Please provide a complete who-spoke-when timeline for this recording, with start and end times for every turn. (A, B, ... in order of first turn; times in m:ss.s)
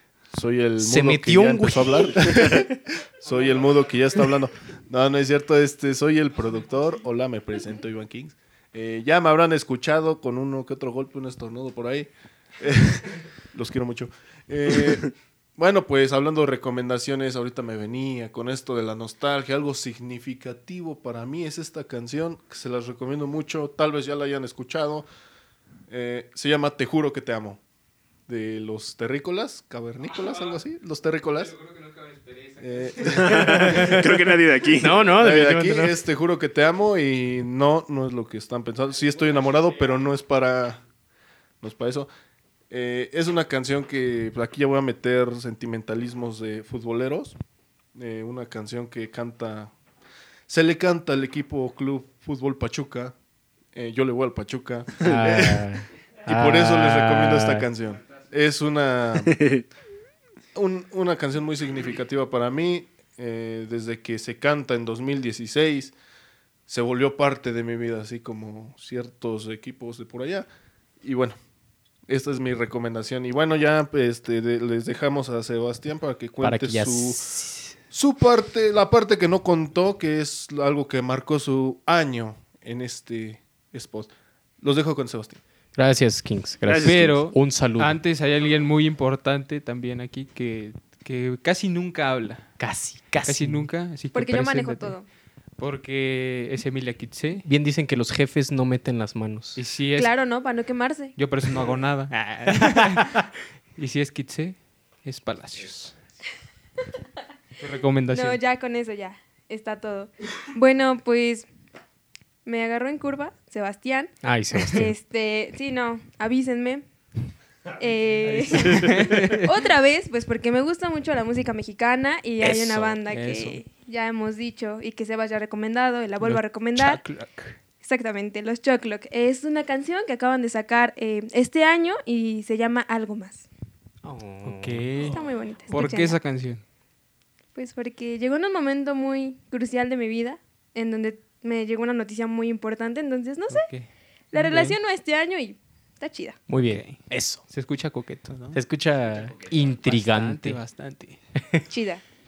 0:00.3-0:25.1 A
0:00.8-0:02.7 B
0:25.9-0:27.6 A
0:28.3-0:31.6 A
0:31.7-0:32.6 C
0:32.6-0:34.0 A
0:33.0-0:35.0 D
0:33.3-0:34.2 B
0:34.8-0:36.0 B
0:35.0-0:40.8 A
0:41.6-0:42.1 A
0:42.7-0:47.4 A
0:47.9-0:49.7 A
0:50.5-0:53.1 A
0:53.7-0:55.7 A
0:55.0-0:57.7 B
0:56.2-0:59.4 A
0:59.2-0:59.6 D
1:00.5-1:05.9 A
1:06.7-1:10.5 A
1:11.0-1:11.4 A
1:12.1-1:17.2 A
1:16.4-1:17.7 B
1:17.9-1:25.4 A
1:25.8-1:28.0 B
1:26.7-1:27.0 D
1:26.8-1:32.5 C
1:32.6-1:33.7 B
1:33.2-1:35.0 C
1:34.1-1:35.0 E
1:35.6-1:37.4 C
1:37.4-1:39.6 B
1:39.6-1:40.1 C
1:40.0-1:41.1 E
1:41.2-1:43.2 C
1:43.8-1:46.0 C
1:47.6-1:48.4 C
1:48.1-1:51.5 E
1:52.4-1:54.1 E
1:54.2-1:54.9 B
1:54.6-1:56.8 E
1:57.8-2:07.0 E
1:58.2-1:59.6 C
1:58.6-1:59.2 B
2:03.0-2:03.6 C
2:06.2-2:07.6 C
2:07.8-2:13.4 E
2:14.0-2:14.9 B
2:14.4-2:16.6 C
2:15.0-2:16.2 E
2:17.5-2:23.7 E
2:23.5-2:24.8 C
2:24.3-2:26.4 E
2:26.5-2:27.4 B
2:26.5-2:28.6 C
2:28.5-2:30.6 B
2:29.5-2:31.2 C
2:31.7-2:32.0 E